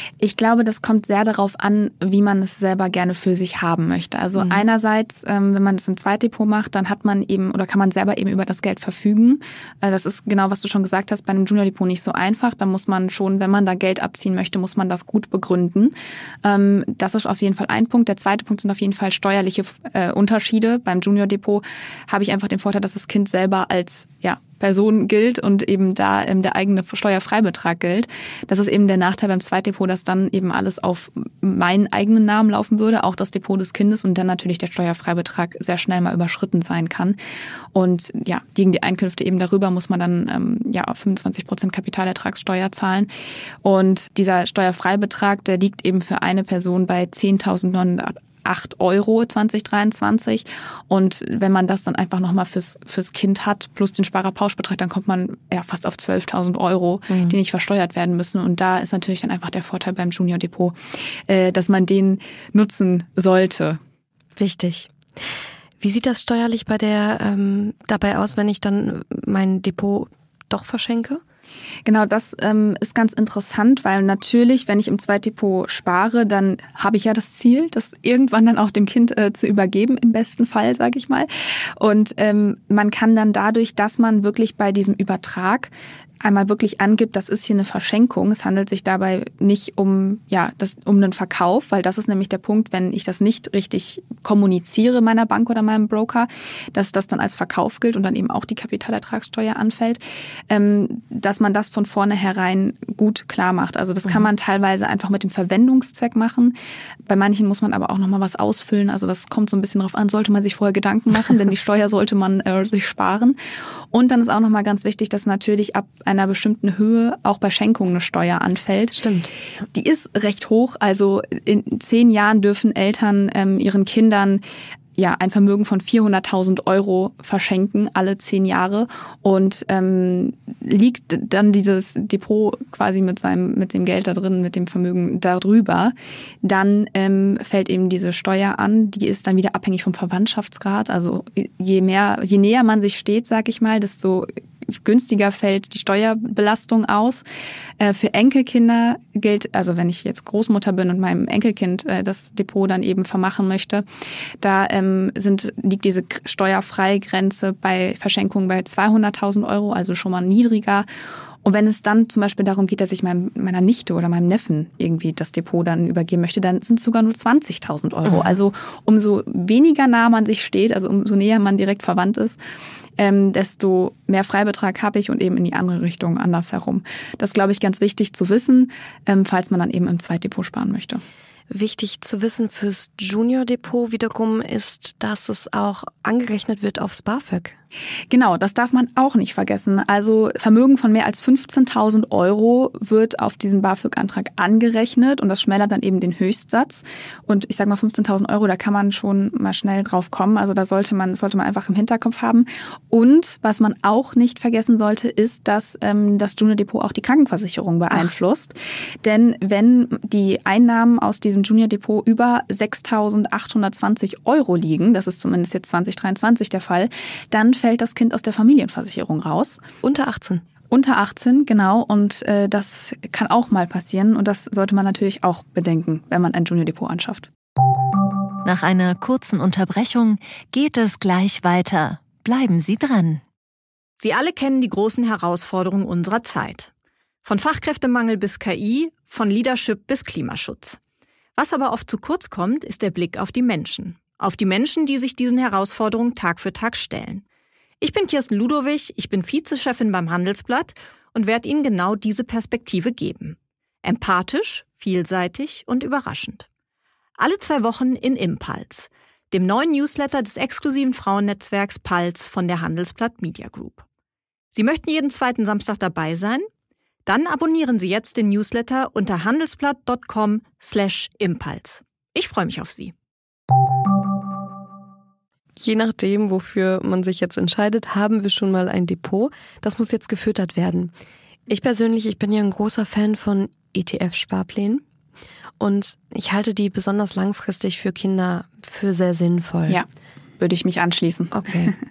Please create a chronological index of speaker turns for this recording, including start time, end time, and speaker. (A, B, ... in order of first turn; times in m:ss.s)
0:00.2-0:37.2 A
0:04.4-0:04.6 B
0:37.7-0:43.1 A
0:43.6-1:00.8 A
0:57.1-0:57.4 B
1:01.3-1:03.8 A
1:04.4-1:04.9 B
1:05.8-1:11.2 B
1:11.9-1:25.7 A
1:26.2-1:46.5 A
1:47.1-1:53.4 A
1:53.9-1:59.0 A
1:58.9-1:59.3 B
1:59.7-2:04.4 A
2:05.0-2:27.2 A
2:27.8-2:33.8 A
2:34.4-2:40.9 A
2:41.4-2:52.4 A
2:48.0-2:48.3 B
2:53.0-3:01.0 A
3:01.5-3:07.6 B
3:08.1-3:39.6 A
3:39.8-3:40.4 B
3:40.7-3:47.3 A
3:48.4-3:53.2 C
3:54.0-3:56.7 D
3:57.2-4:00.8 D
4:01.4-4:07.2 D
4:07.8-4:16.5 D
4:17.2-4:23.9 D
4:24.5-4:26.5 D
4:27.1-4:32.9 D
4:35.6-4:40.9 B
4:41.5-4:44.8 B
4:45.6-4:49.8 B
4:50.4-4:51.7 A
4:51.3-4:51.7 B